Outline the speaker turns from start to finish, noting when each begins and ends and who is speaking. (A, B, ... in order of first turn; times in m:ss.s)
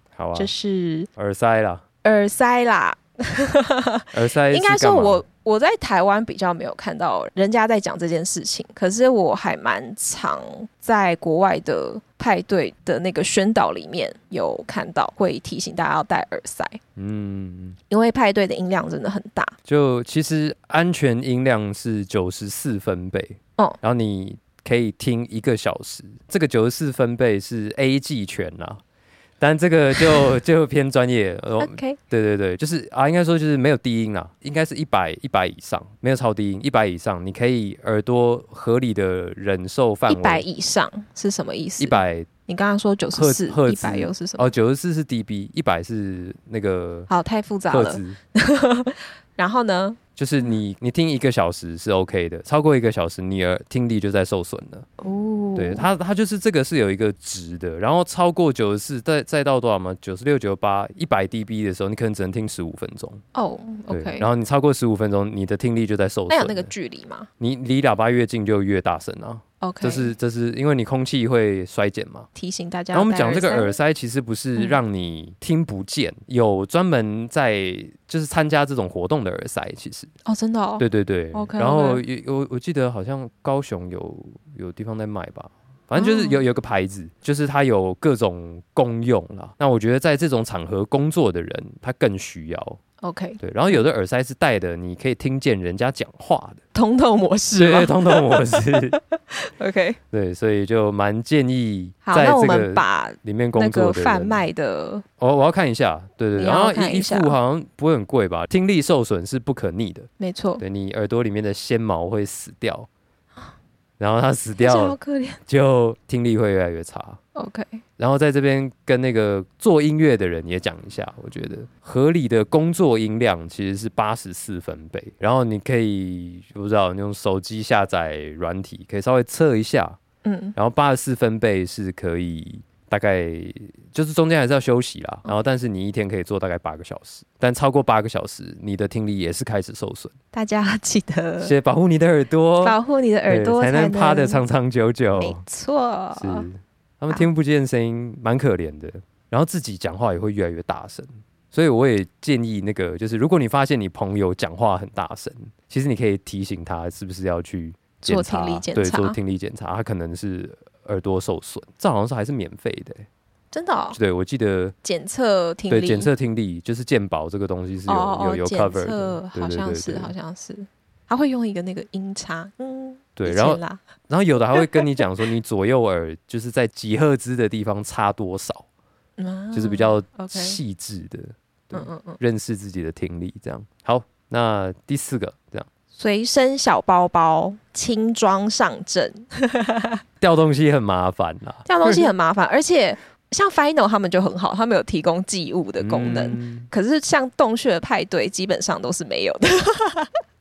0:00.1-0:00.5 A
0:00.3-0:01.1 B
0:01.2-0:01.8 A
0:02.0-0:16.8 B
0:04.1-0:05.2 A
0:17.0-0:17.8 A
0:17.9-0:19.5 B
0:19.6-0:28.8 A
0:29.4-0:40.4 A
0:31.6-0:32.0 B
0:40.1-0:44.5 B
0:41.8-0:42.3 A
0:43.1-0:47.1 A
0:47.1-0:50.5 B
0:47.7-0:48.2 A
0:50.2-0:54.9 A
0:55.0-0:55.8 B
0:55.6-1:03.2 A
1:03.3-1:04.3 B
1:03.9-1:06.7 A
1:06.3-1:07.3 B
1:07.4-1:12.3 A
1:09.6-1:10.1 B
1:12.3-1:13.7 B
1:12.9-1:20.1 A
1:20.2-1:22.0 B
1:20.8-1:32.8 A
1:25.9-1:26.4 B
1:33.0-1:33.8 B
1:33.4-1:36.6 A
1:36.7-1:40.0 B
1:37.6-1:39.0 A
1:40.1-1:44.4 A
1:42.0-1:45.0 B
1:45.2-1:52.9 A
1:46.4-1:47.4 B
1:50.2-1:50.6 B
1:54.0-1:55.0 A
1:54.6-1:55.4 B
1:55.5-1:57.2 A
1:57.3-1:57.8 B
1:58.0-2:10.0 A
2:10.2-2:10.6 B
2:10.6-2:20.1 A
2:20.3-2:21.5 B
2:21.4-2:22.8 A
2:22.6-2:24.4 B
2:23.3-2:25.4 A
2:25.1-2:26.5 B
2:26.1-2:43.0 A
2:38.0-2:39.2 B
2:43.5-2:44.0 B
2:43.9-2:44.7 A
2:44.8-2:46.1 B
2:45.7-2:50.1 A
2:47.8-2:53.8 B
2:53.2-2:58.6 A
2:54.5-2:54.8 B
2:59.2-3:00.6 B
2:59.5-3:05.7 A
3:01.7-3:02.2 B
3:05.9-3:10.0 B
3:10.2-3:12.0 A
3:11.6-3:20.2 B
3:15.8-3:16.7 A